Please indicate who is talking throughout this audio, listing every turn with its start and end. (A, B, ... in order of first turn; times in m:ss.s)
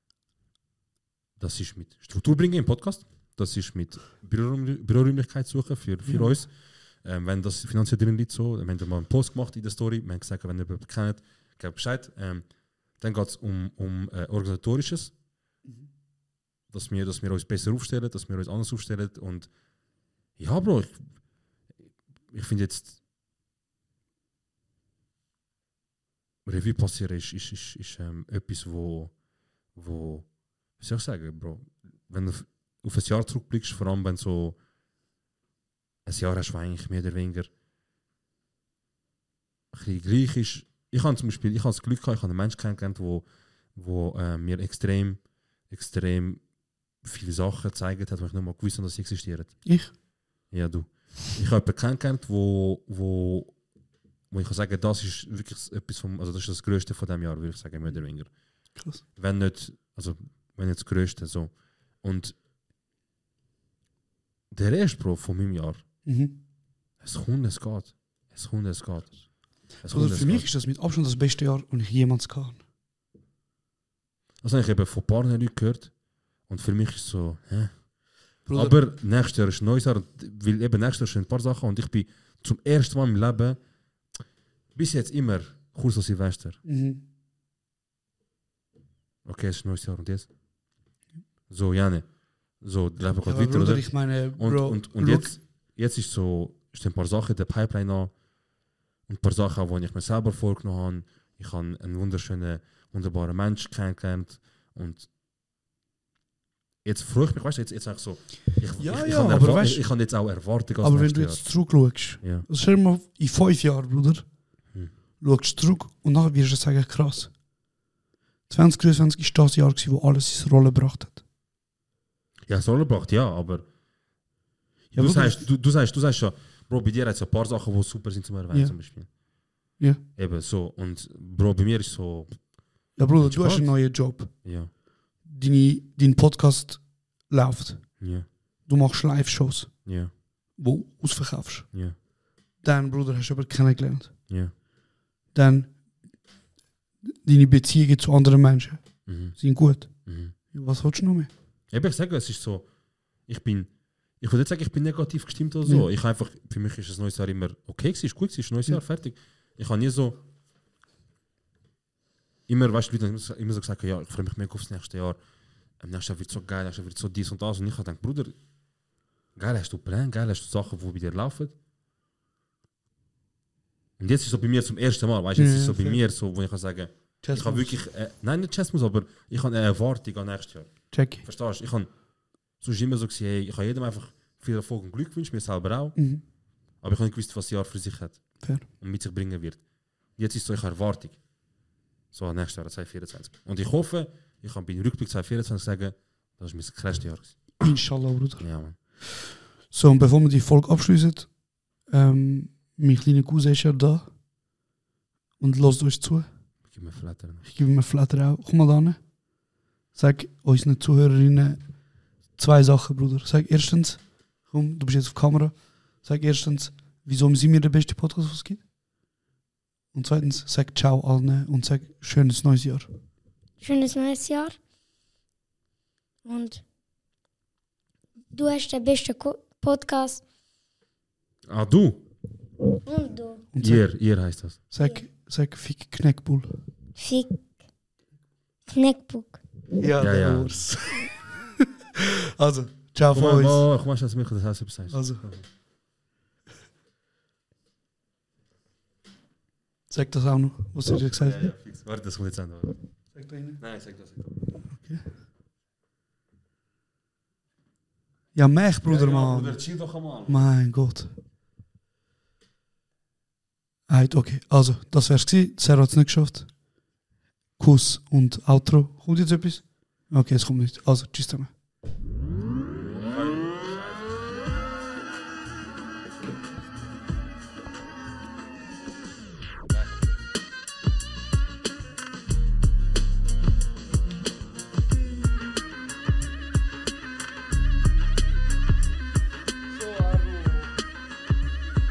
0:01.4-0:06.5 A
0:06.0-0:06.4 B
0:07.0-0:12.4 A
0:13.0-0:15.1 A
0:16.7-0:19.5 A
0:20.4-0:21.1 A
0:22.3-0:23.0 A
0:26.4-0:29.1 A
0:29.8-0:30.3 A
0:30.8-0:34.6 A
0:36.0-0:37.5 A
0:39.7-0:46.4 A
0:47.0-0:49.7 A
0:49.6-0:49.9 B
0:50.5-0:53.6 A
0:54.3-0:58.3 A
0:58.8-0:59.0 B
0:59.2-1:02.4 A
1:04.5-1:05.8 A
1:06.1-1:06.4 B
1:07.0-1:09.2 A
1:09.8-1:10.5 A
1:09.9-1:12.6 B
1:14.4-1:15.9 A
1:16.5-1:17.8 A
1:18.5-1:18.8 B
1:18.5-1:23.6 A
1:24.8-1:26.6 A
1:26.6-1:27.0 B
1:29.2-1:30.3 A
1:31.5-1:32.1 A
1:32.6-1:38.1 A
1:33.0-1:35.3 B
1:39.1-1:45.1 A
1:46.8-1:51.5 A
1:48.8-1:49.8 B
1:50.8-1:54.3 B
1:52.2-1:52.5 A
1:55.2-1:57.3 B
1:58.5-2:01.2 B
2:02.5-2:03.7 A
2:04.9-2:09.1 A
2:05.0-2:05.5 B
2:08.5-2:08.8 B
2:10.2-2:12.4 A
2:13.0-2:14.3 B
2:13.2-2:14.7 A
2:15.2-2:17.9 B
2:18.0-2:18.3 A
2:18.7-2:19.8 B
2:19.8-2:20.1 A
2:20.6-2:21.7 B
2:22.6-2:24.1 B
2:24.3-2:24.5 A
2:25.3-2:25.8 B
2:27.0-2:29.9 B
2:29.1-2:29.4 A
2:30.1-2:30.3 A
2:30.5-2:31.3 B
2:31.7-2:32.7 A
2:33.3-2:40.2 A
2:42.5-2:45.2 A
2:45.8-2:48.4 A
2:49.4-2:51.6 A
2:54.0-3:01.9 A
2:55.4-2:56.0 B
2:57.2-2:57.8 B
3:00.9-3:01.2 B
3:02.6-3:06.0 A
3:06.0-3:06.2 B
3:06.8-3:09.6 A
3:08.4-3:08.7 B
3:10.2-3:11.2 A
3:12.1-3:17.6 A
3:17.6-3:21.3 B
3:18.4-3:18.8 A
3:21.9-3:24.1 B
3:25.4-3:26.3 B
3:26.7-3:27.4 A
3:27.4-3:29.1 B
3:29.9-3:31.6 B
3:32.3-3:38.6 B
3:39.9-3:42.9 B
3:43.6-3:44.6 C
3:46.2-3:46.6 C
3:48.3-3:50.2 C
3:51.5-3:52.0 A
3:52.8-3:53.5 C
3:53.5-3:53.9 B
3:53.6-3:54.6 A
3:54.7-3:56.5 B
3:57.0-3:57.4 C
3:58.7-3:59.4 C
3:59.8-4:01.3 B
4:00.0-4:00.7 A
4:02.0-4:03.7 B
4:03.1-4:05.5 A
4:04.9-4:05.2 B
4:09.9-4:11.5 B
4:11.1-4:12.8 A
4:13.2-4:13.6 B
4:13.6-4:14.4 A
4:14.7-4:15.1 B
4:18.3-4:21.2 B
4:18.8-4:20.4 A
4:23.9-4:26.5 B
4:27.6-4:31.5 B
4:32.9-4:34.4 A
4:39.7-4:40.3 A
4:49.7-4:50.7 B